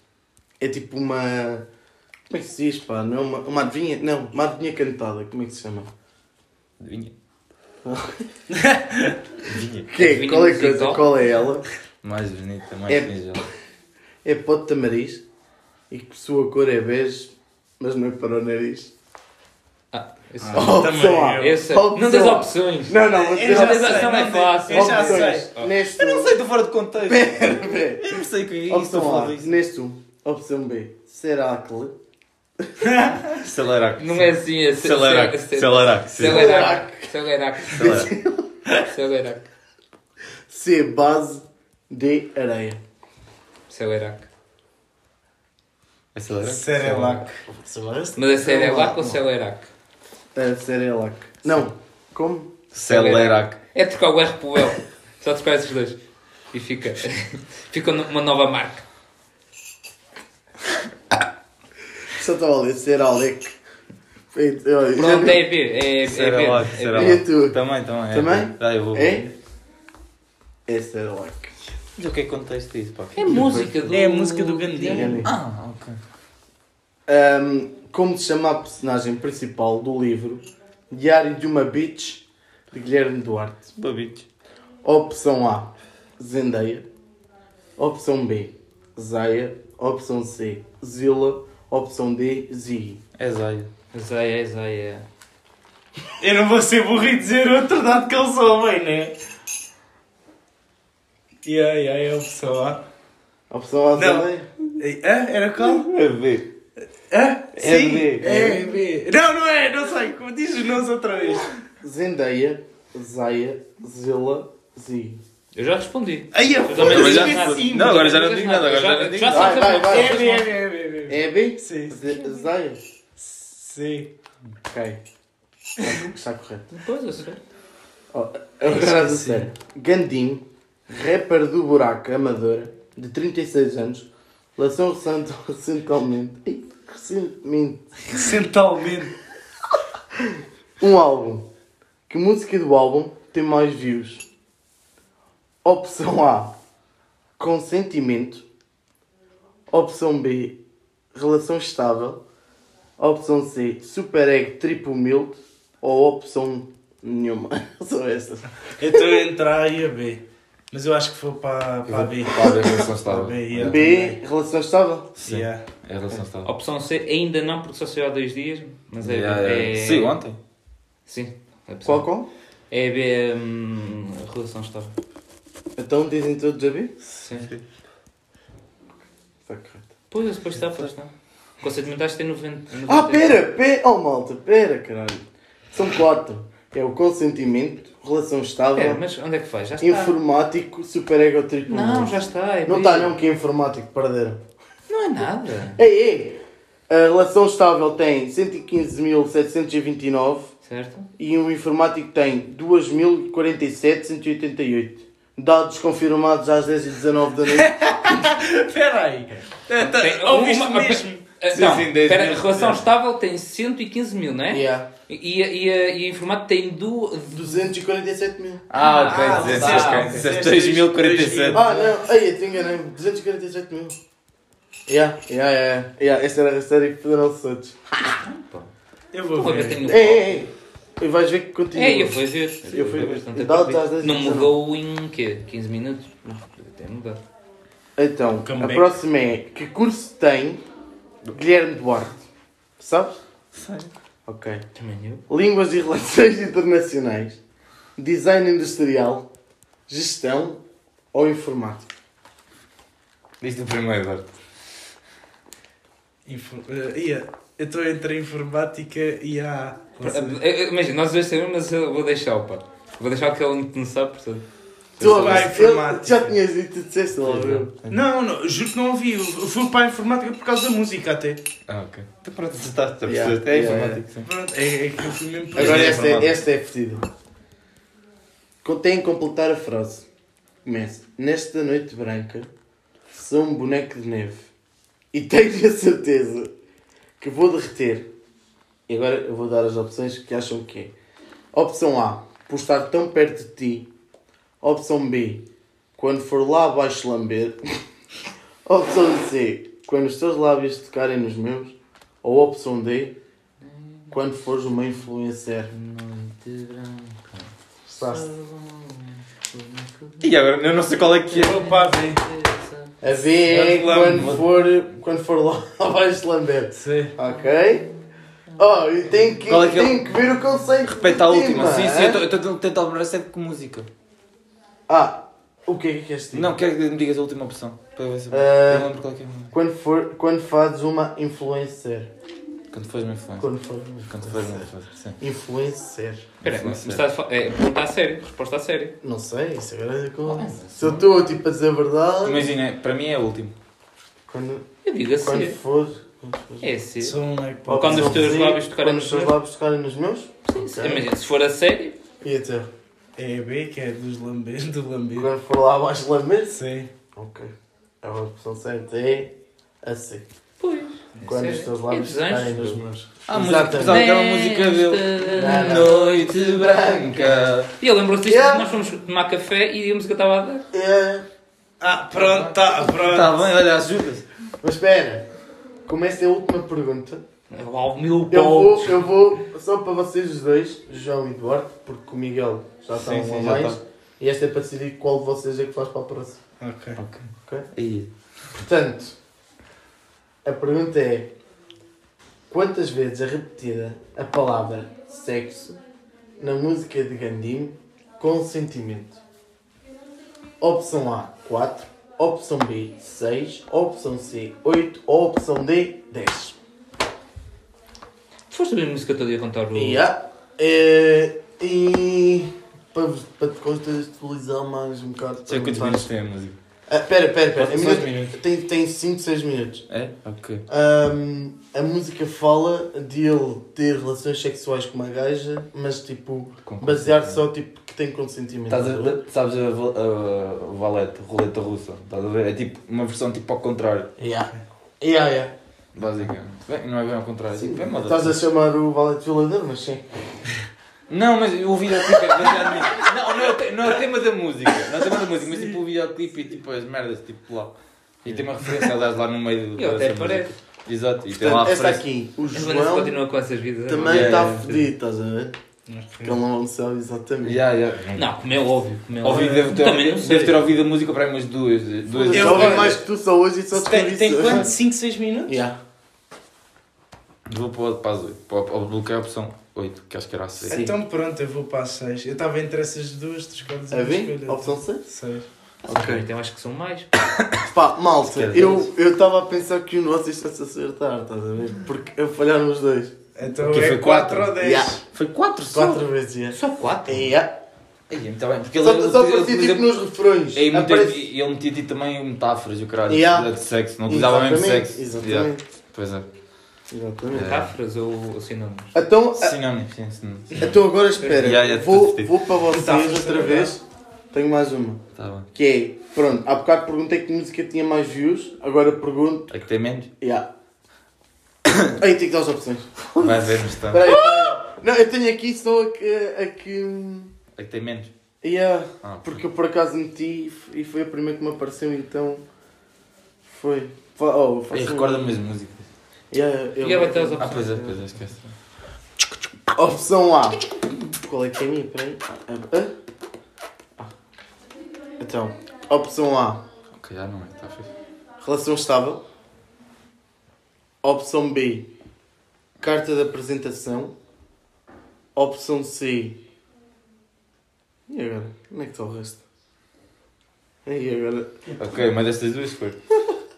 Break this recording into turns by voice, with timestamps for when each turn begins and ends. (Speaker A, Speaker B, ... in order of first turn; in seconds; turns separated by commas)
Speaker A: 0.6-1.6, Speaker A: 2.3-5.9, Speaker B: 6.8-7.1, Speaker A: 7.8-8.2, Speaker C: 8.5-9.2, Speaker B: 9.4-9.9, Speaker A: 9.9-11.7, Speaker D: 9.9-11.1, Speaker B: 12.0-13.4, Speaker A: 12.9-13.2, Speaker A: 14.2-15.2, Speaker A: 15.9-18.9, Speaker D: 19.9-25.7, Speaker C: 20.4-21.6, Speaker A: 20.5-26.4, Speaker C: 23.0-25.5, Speaker B: 25.9-29.5, Speaker A: 27.0-31.9, Speaker A: 32.6-32.9, Speaker C: 32.8-33.2, Speaker B: 33.2-36.6, Speaker D: 34.0-38.1, Speaker A: 36.2-38.5, Speaker B: 37.7-38.1, Speaker D: 38.9-39.5, Speaker A: 40.5-42.8, Speaker D: 43.7-44.3, Speaker B: 46.1-47.3, Speaker C: 46.4-47.4, Speaker A: 47.5-49.2, Speaker D: 48.1-49.7, Speaker A: 50.3-52.6, Speaker B: 52.7-53.6, Speaker D: 52.8-56.0, Speaker D: 56.5-58.8, Speaker A: 62.1-63.5, Speaker A: 64.3-65.4, Speaker D: 64.9-67.2, Speaker B: 66.0-69.2, Speaker A: 66.9-69.3, Speaker A: 70.7-71.5, Speaker B: 72.0-73.6, Speaker D: 73.2-75.3, Speaker A: 73.2-73.8, Speaker C: 73.9-75.2, Speaker A: 74.8-75.3, Speaker B: 75.2-76.0, Speaker A: 77.1-83.7, Speaker B: 83.8-84.2, Speaker A: 84.8-86.9, Speaker A: 87.8-93.0, Speaker B: 93.2-93.7, Speaker D: 93.9-95.0, Speaker C: 96.2-99.1, Speaker C: 101.4-102.8, Speaker A: 103.5-104.5, Speaker C: 103.9-105.9, Speaker B: 105.6-106.5, Speaker C: 107.1-111.6, Speaker B: 107.5-108.6, Speaker A: 111.8-115.2, Speaker D: 115.5-120.6, Speaker C: 116.3-118.2, Speaker B: 116.8-119.8, Speaker A: 119.3-120.3, Speaker C: 119.6-122.0, Speaker A: 121.1-122.8, Speaker C: 123.2-124.1, Speaker A: 124.7-125.0, Speaker A: 125.8-126.7, Speaker D: 126.7-127.4, Speaker A: 128.1-138.0, Speaker C: 128.6-129.5, Speaker C: 138.1-139.2, Speaker A: 140.2-141.5, Speaker A: 142.1-144.2, Speaker A: 145.6-146.5, Speaker A: 147.4-148.4, Speaker A: 149.7-150.6, Speaker A: 151.1-152.2, Speaker A: 153.0-159.1, Speaker C: 158.8-164.2, Speaker B: 161.8-163.8, Speaker A: 163.6-165.1, Speaker B: 165.2-166.5, Speaker C: 165.2-165.6, Speaker D: 166.4-170.2, Speaker B: 169.0-170.4, Speaker D: 171.1-172.1, Speaker A: 171.8-172.3, Speaker D: 172.7-174.9, Speaker A: 175.8-177.0, Speaker D: 177.2-177.5, Speaker B: 177.3-177.6, Speaker A: 179.4-179.9, Speaker D: 180.1-183.4, Speaker A: 182.9-189.0, Speaker D: 188.7-190.1, Speaker A: 189.8-194.4, Speaker D: 191.7-193.1, Speaker D: 194.9-195.8, Speaker A: 195.8-200.5, Speaker D: 200.6-201.1, Speaker A: 201.2-207.8, Speaker C: 207.5-211.2, Speaker D: 209.8-217.5, Speaker B: 211.5-212.8, Speaker A: 214.5-214.9, Speaker A: 217.3-218.7, Speaker B: 218.7-221.7, Speaker D: 218.8-220.3, Speaker C: 218.8-221.9, Speaker A: 221.5-224.0, Speaker A: 224.9-227.8, Speaker D: 228.0-228.7, Speaker C: 229.1-229.8, Speaker D: 229.3-230.5, Speaker A: 229.8-234.5, Speaker D: 231.7-237.2, Speaker B: 232.8-233.2, Speaker A: 237.9-240.6, Speaker C: 238.4-239.0, Speaker A: 241.3-242.2, Speaker A: 242.8-243.2, Speaker B: 243.5-243.9, Speaker A: 244.2-244.6, Speaker D: 244.8-245.2, Speaker A: 245.3-247.4, Speaker A: 248.0-249.3, Speaker A: 249.9-250.6, Speaker A: 251.1-251.9, Speaker B: 253.4-254.3, Speaker C: 256.2-260.4, Speaker D: 260.0-264.4, Speaker D: 265.0-265.5, Speaker A: 265.0-267.8, Speaker C: 265.0-266.3, Speaker C: 267.9-271.4, Speaker B: 271.7-274.3, Speaker A: 273.0-274.0, Speaker C: 274.2-276.3, Speaker B: 275.5-276.4, Speaker A: 275.6-277.1, Speaker A: 278.6-280.1, Speaker A: 280.6-282.5, Speaker A: 283.1-284.5, Speaker A: 285.1-286.5, Speaker A: 287.2-288.1, Speaker A: 288.9-290.9, Speaker A: 291.5-293.9, Speaker A: 294.6-295.4, Speaker A: 296.0-297.8, Speaker A: 298.6-303.2, Speaker D: 303.6-304.1, Speaker A: 304.1-305.7, Speaker D: 305.7-307.5, Speaker A: 307.9-308.3, Speaker D: 308.0-310.3, Speaker B: 310.2-311.7, Speaker D: 311.3-312.9, Speaker C: 311.3-312.2, Speaker A: 313.0-317.9, Speaker C: 313.4-314.4, Speaker B: 314.0-314.4, Speaker C: 316.7-317.1, Speaker D: 317.3-317.7, Speaker A: 318.6-322.2, Speaker B: 319.5-320.1, Speaker B: 320.9-323.9, Speaker A: 324.9-326.5, Speaker B: 326.3-329.5, Speaker A: 328.3-328.9, Speaker A: 329.5-332.1, Speaker B: 332.7-333.5, Speaker A: 333.4-336.3, Speaker B: 334.0-335.2, Speaker D: 336.4-339.0, Speaker B: 336.4-337.0, Speaker A: 339.0-342.5, Speaker D: 340.2-341.0, Speaker B: 342.2-343.5, Speaker A: 344.3-344.7, Speaker D: 344.8-345.6, Speaker A: 345.2-346.7, Speaker D: 346.6-347.2, Speaker C: 347.0-348.4, Speaker A: 347.6-351.1, Speaker D: 347.7-349.3, Speaker D: 350.4-352.0, Speaker A: 352.2-352.7, Speaker C: 353.1-355.3, Speaker A: 355.1-356.6, Speaker C: 356.5-356.9, Speaker A: 357.1-360.3, Speaker D: 360.6-362.8, Speaker A: 361.2-364.0, Speaker B: 363.3-367.7, Speaker D: 363.8-366.0, Speaker A: 365.3-367.5, Speaker D: 367.8-370.7, Speaker A: 368.2-368.8, Speaker A: 370.7-371.2, Speaker C: 371.8-373.5, Speaker B: 372.1-374.2, Speaker A: 374.6-375.3, Speaker A: 375.8-377.2, Speaker D: 377.5-379.1, Speaker A: 378.3-386.4, Speaker B: 383.0-383.8, Speaker C: 383.1-383.4, Speaker C: 386.6-387.0, Speaker B: 387.0-388.1, Speaker A: 387.4-387.7, Speaker A: 388.5-389.1, Speaker A: 390.4-391.3, Speaker A: 392.5-395.8, Speaker A: 396.4-399.2, Speaker A: 400.6-406.6, Speaker D: 408.5-410.0, Speaker A: 409.7-416.1, Speaker B: 415.5-416.6, Speaker A: 416.9-419.9, Speaker B: 417.6-418.3, Speaker B: 419.9-420.6, Speaker A: 420.7-429.2, Speaker B: 426.6-427.4, Speaker B: 428.7-434.1, Speaker A: 434.2-435.5, Speaker B: 435.9-438.4, Speaker A: 437.6-440.4, Speaker B: 441.1-452.0, Speaker D: 449.8-450.5, Speaker A: 451.3-453.2, Speaker D: 452.5-454.9, Speaker A: 453.9-455.6, Speaker B: 454.0-454.6, Speaker C: 455.9-456.4, Speaker A: 456.2-457.6, Speaker B: 457.4-458.2, Speaker D: 458.1-460.6, Speaker B: 459.2-463.0, Speaker A: 462.2-464.7, Speaker C: 462.3-463.0, Speaker C: 463.7-465.6, Speaker A: 465.5-465.8, Speaker B: 467.5-470.8, Speaker A: 470.7-470.9, Speaker C: 470.7-475.5, Speaker A: 473.9-475.1, Speaker A: 475.9-476.3, Speaker D: 475.9-477.1, Speaker B: 477.2-477.6, Speaker A: 477.6-483.1, Speaker B: 478.2-478.9, Speaker C: 483.4-485.0, Speaker B: 483.6-486.0, Speaker A: 484.6-485.0, Speaker A: 485.7-487.6, Speaker D: 486.5-487.3, Speaker B: 488.1-489.9, Speaker A: 488.8-491.2, Speaker B: 490.5-496.2, Speaker A: 493.1-493.5, Speaker A: 494.1-495.6, Speaker A: 496.9-497.6, Speaker B: 497.3-497.7, Speaker D: 497.3-498.9, Speaker A: 498.9-499.6, Speaker B: 499.3-502.3, Speaker A: 500.6-509.5, Speaker C: 502.7-503.7, Speaker B: 505.1-505.5, Speaker B: 509.5-510.1, Speaker A: 510.2-510.5, Speaker A: 511.9-517.3, Speaker B: 513.2-514.1, Speaker B: 517.5-518.1, Speaker A: 518.4-522.4, Speaker B: 519.0-519.4, Speaker A: 523.4-525.4, Speaker B: 524.7-525.9, Speaker A: 526.3-528.0, Speaker D: 526.8-527.8, Speaker B: 527.4-528.4, Speaker A: 529.7-530.6, Speaker A: 531.2-532.9, Speaker A: 535.2-536.6, Speaker B: 537.0-537.9, Speaker A: 538.4-539.2, Speaker A: 541.0-541.9, Speaker A: 542.8-544.1, Speaker A: 545.3-546.4, Speaker A: 548.1-549.4, Speaker A: 550.8-551.6, Speaker B: 551.8-553.0